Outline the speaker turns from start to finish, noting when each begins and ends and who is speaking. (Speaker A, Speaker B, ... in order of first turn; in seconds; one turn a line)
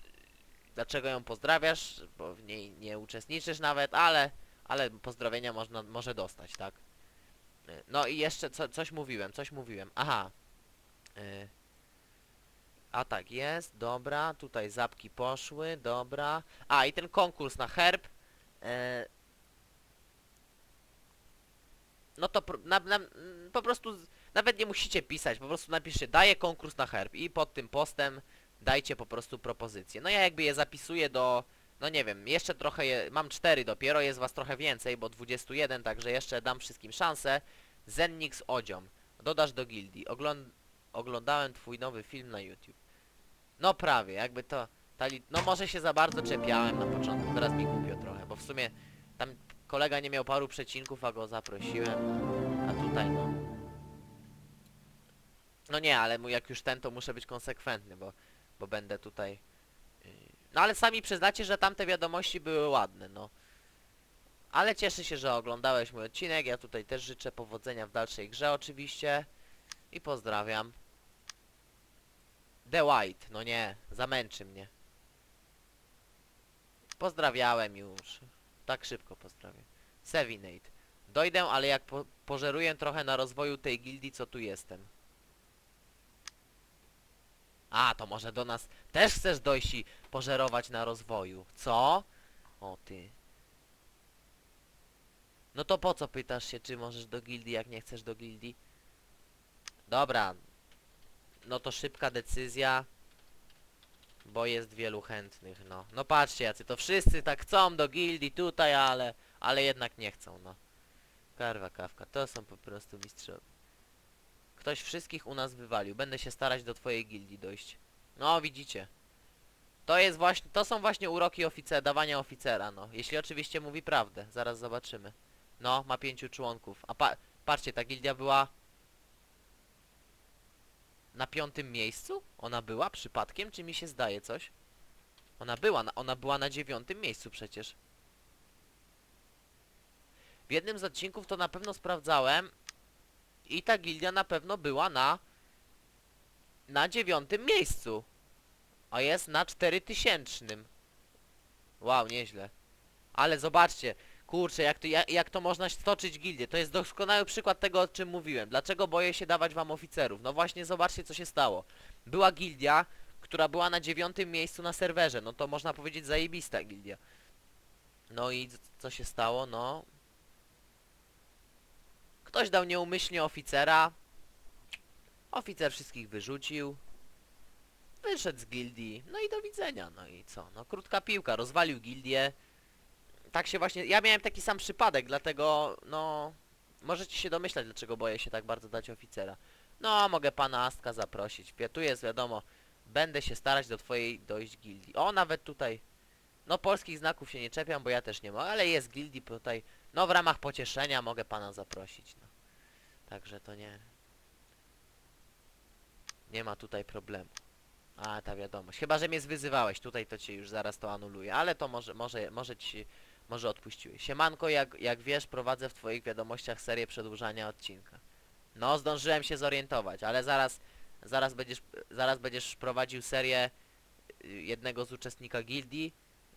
Speaker A: 0.8-6.8
Speaker A: 7.7-10.3
Speaker A: 11.2-11.5
Speaker A: 12.9-18.1
Speaker A: 18.6-19.1
Speaker A: 22.2-42.8
Speaker A: 43.6-53.4
Speaker A: 55.7-59.4
Speaker A: 60.0-63.3
Speaker A: 64.5-69.3
Speaker A: 69.9-70.7
Speaker A: 72.7-74.7
Speaker A: 77.0-84.9
Speaker A: 87.7-92.0
Speaker A: 92.6-93.1
Speaker A: 95.5-98.6
Speaker A: 99.9-100.4
Speaker A: 101.4-102.9
Speaker A: 104.2-110.6
Speaker A: 111.4-113.4
Speaker A: 114.5-118.9
Speaker A: 119.8-128.5
Speaker A: 131.1-134.5
Speaker A: 135.4-137.8
Speaker A: 140.5-142.5
Speaker A: 143.5-145.2
Speaker A: 146.7-148.1
Speaker A: 148.9-150.7
Speaker A: 151.8-152.5
Speaker A: 153.1-167.0
Speaker A: 168.1-169.9
Speaker A: 172.2-173.9
Speaker A: 175.3-176.8
Speaker A: 178.0-182.3
Speaker A: 183.3-195.8
Speaker A: 196.4-202.3
Speaker A: 203.1-203.8
Speaker A: 206.3-207.3
Speaker A: 208.0-218.0
Speaker A: 218.6-223.5
Speaker A: 224.2-225.9